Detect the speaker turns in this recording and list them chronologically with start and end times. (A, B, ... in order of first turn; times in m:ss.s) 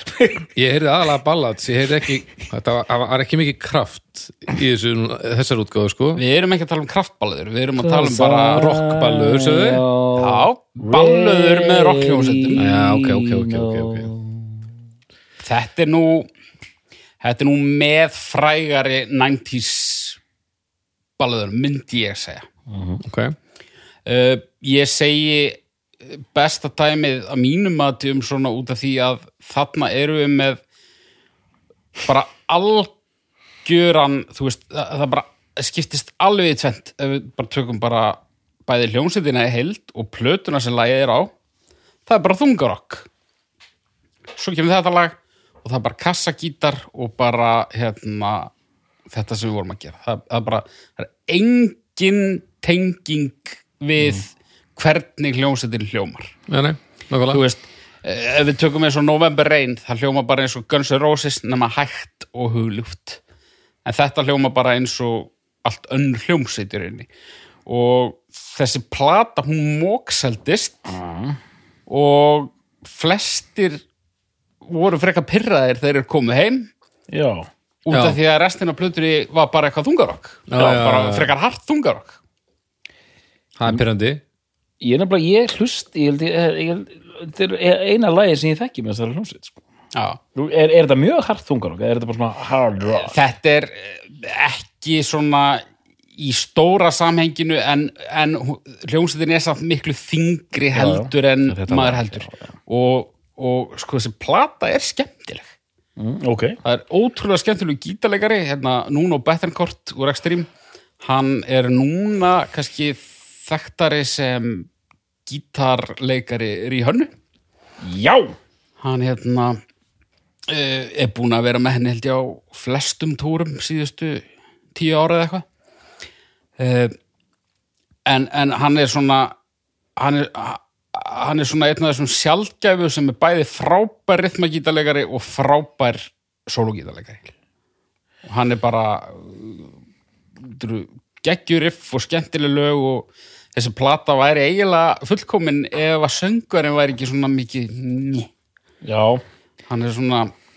0:00.5-0:06.2 A
0:06.2-0:08.7 B
0:07.8-0:14.6 C
0:08.5-0:09.8 A
0:10.2-0:12.7 B
0:12.6-0:14.1 A
0:15.4-0:16.3 B
0:17.2-0:20.2 B
0:21.2-0:22.5 B
0:22.7-0:23.0 C
0:23.0-0:23.3 A
0:24.0-0:30.6 B
0:32.0-0:32.9 B
0:33.6-0:41.3 B
0:42.1-0:43.1 B
0:44.3-0:48.5 B
0:49.1-0:56.3 B
0:56.5-0:57.4 A
0:57.3-1:03.2 B
1:03.8-1:07.1 B
1:07.6-1:10.9 B
1:10.9-1:11.4 C
1:11.9-1:13.8 B
1:14.6-1:16.7 B
1:17.1-1:17.5 C
1:17.8-1:22.2 B
1:17.9-1:18.2 A
1:20.5-1:21.3 A
1:23.6-1:24.2 A
1:24.8-1:29.6 C
1:29.9-1:30.2 B
1:30.3-1:33.2 C
1:33.0-1:35.6 B
1:36.2-1:45.5 B
1:40.7-1:42.5 C
1:46.0-1:46.6 C
1:46.6-1:50.5 B
1:51.0-1:54.7 B
1:55.3-1:57.1 B
1:57.8-1:58.4 C
1:58.8-1:59.6 B
2:00.5-2:05.4 B
2:06.6-2:07.0 B
2:08.0-2:09.3 B
2:10.0-2:17.2 B
2:18.2-2:19.7 B
2:20.4-2:28.3 B
2:28.8-2:29.2 C
2:29.7-2:30.3 B